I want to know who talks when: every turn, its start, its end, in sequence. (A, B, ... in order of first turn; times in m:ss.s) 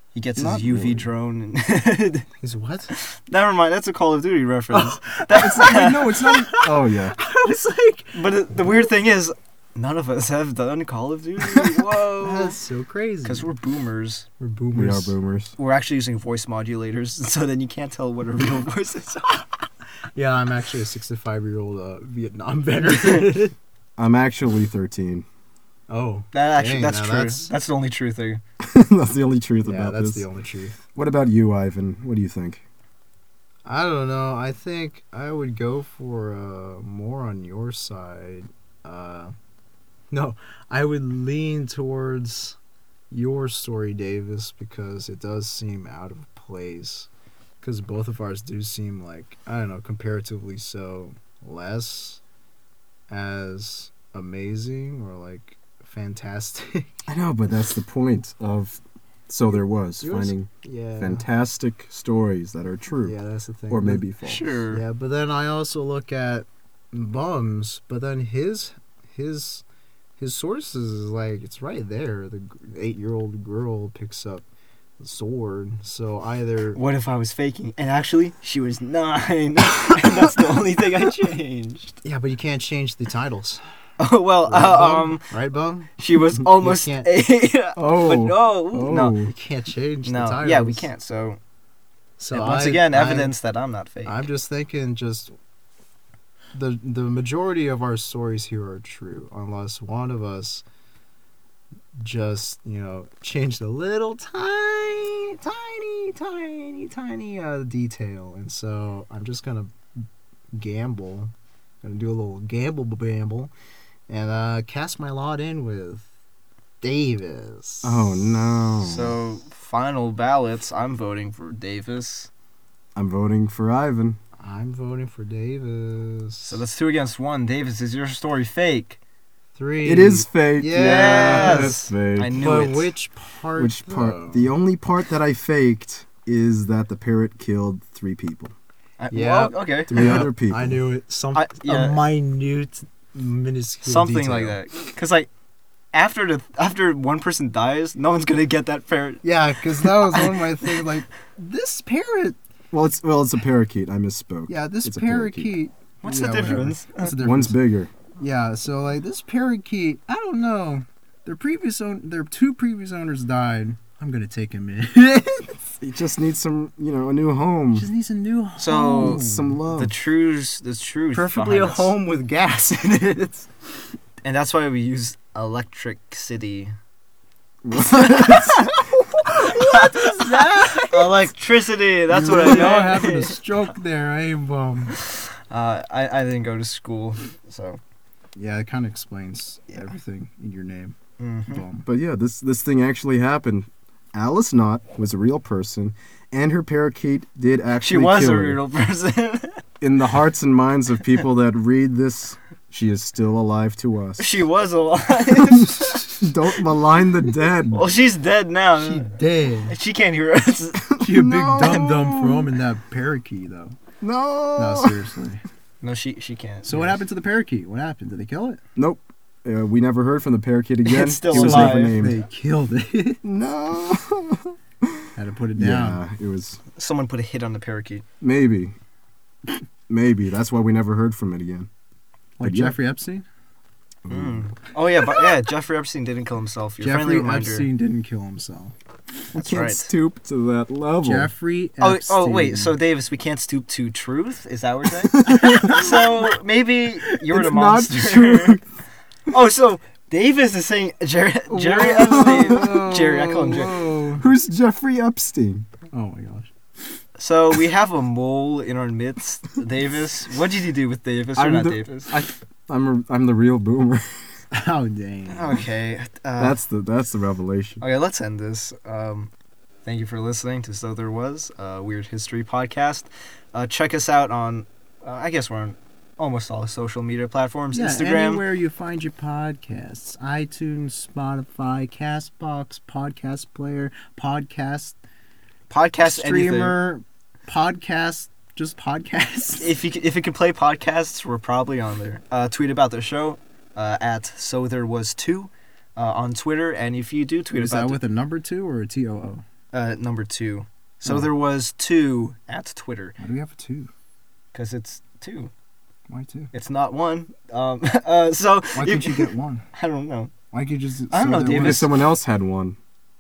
0:00.1-0:02.3 A
0:00.4-0:01.1 B
0:02.4-0:02.9 C
0:02.9-0:06.1 A
0:04.7-0:08.2 C
0:05.3-0:07.2 B
0:08.1-0:12.6 A
0:11.6-0:13.5 C
0:13.2-0:14.3 A
0:14.4-0:15.1 C
0:14.7-0:15.6 B
0:15.6-0:19.4 A
0:20.1-0:23.5 C
0:22.9-0:23.2 A
0:24.0-0:25.2 B
0:25.9-0:27.5 C
0:26.3-0:28.4 A
0:28.6-0:30.2 B
0:29.6-0:30.8 C
0:30.9-0:32.6 B
0:33.6-0:39.3 C
0:40.1-0:42.6 C
0:43.1-0:47.1 C
0:47.6-0:52.2 C
0:53.1-0:56.9 C
0:57.1-1:03.2 B
1:00.0-1:01.2 C
1:03.0-1:04.1 C
1:03.7-1:04.4 B
1:04.2-1:04.8 A
1:04.7-1:09.6 C
1:10.2-1:14.4 C
1:15.0-1:16.8 C
1:16.7-1:22.0 A
1:22.0-1:23.6 C
1:24.0-1:25.3 A
1:24.5-1:25.9 C
1:26.0-1:29.1 A
1:26.4-1:27.1 C
1:27.8-1:29.3 B
1:29.2-1:30.9 C
1:30.0-1:31.4 A
1:32.2-1:33.3 C
1:32.3-1:34.2 A
1:34.0-1:35.3 C
1:36.5-1:40.6 C
1:42.0-1:53.5 C
1:54.1-1:56.1 C
1:56.8-1:58.5 C
1:57.8-1:59.2 B
1:58.8-2:02.3 A
2:03.0-2:04.2 B
2:04.4-2:06.6 C
2:06.4-2:09.0 A
2:09.6-2:11.8 C
2:09.8-2:12.6 B
2:10.7-2:12.9 A
2:12.3-2:14.5 C
2:13.6-2:18.5 B
2:19.0-2:20.2 A
2:19.1-2:24.6 C
2:19.9-2:20.8 B
2:21.3-2:22.0 A
2:23.8-2:25.3 A
2:25.9-2:29.2 A
2:29.2-2:32.4 C
2:29.8-2:30.9 A
2:32.7-2:35.5 B
2:34.5-2:37.6 C
2:36.0-2:37.1 A
2:37.2-2:37.9 B
2:38.2-2:45.6 C
2:45.8-2:47.9 B
2:47.7-2:49.6 C
2:48.6-2:51.9 A
2:49.0-2:49.9 B
2:51.1-2:53.5 C
2:54.2-2:56.7 A
2:57.6-2:58.8 B
2:57.9-2:58.7 A
2:58.2-3:01.3 C
2:59.5-3:03.4 A
3:02.1-3:05.0 C
3:04.9-3:07.8 A
3:08.4-3:11.8 C
3:11.2-3:11.6 A
3:11.8-3:18.6 B
3:17.8-3:19.6 A
3:19.8-3:24.4 B
3:24.2-3:26.3 A
3:25.5-3:27.9 B
3:27.7-3:30.9 A
3:28.8-3:29.8 C
3:30.9-3:32.5 B
3:31.0-3:33.8 C
3:34.0-3:35.0 B
3:34.6-3:35.4 C
3:35.8-3:37.0 A
3:36.6-3:38.6 C
3:38.8-3:42.2 B
3:40.8-3:42.2 A
3:41.3-3:43.2 C
3:43.2-3:45.0 B
3:45.1-3:46.0 C
3:45.6-3:46.6 B
3:46.8-3:48.0 A
3:48.2-3:48.7 B
3:49.9-3:51.7 B
3:52.4-3:53.2 C
3:52.4-3:52.8 B
3:54.0-3:54.5 B
3:54.1-3:57.7 A
3:56.8-3:58.7 C
3:59.3-4:01.3 B
3:59.4-3:59.9 A
4:01.0-4:02.7 C
4:01.8-4:08.6 A
4:05.1-4:05.8 B
4:05.2-4:06.3 C
4:07.3-4:08.6 B
4:09.3-4:13.8 A
4:11.5-4:15.7 B
4:12.0-4:14.2 C
4:15.9-4:16.5 C
4:17.2-4:22.1 A
4:21.4-4:24.2 B
4:24.5-4:25.6 C
4:25.3-4:26.6 A
4:26.4-4:27.8 B
4:27.8-4:29.3 A
4:29.8-4:38.4 A
4:37.7-4:45.0 C
4:45.7-4:46.8 A
4:46.0-4:49.8 C
4:49.6-4:58.0 A
4:57.5-4:59.4 C
4:59.7-5:03.1 A
5:03.2-5:03.9 C
5:04.5-5:05.5 A
5:06.1-5:06.5 C
5:06.5-5:10.3 A
5:08.7-5:09.6 C
5:10.5-5:11.9 C
5:11.1-5:11.9 A
5:11.5-5:12.8 B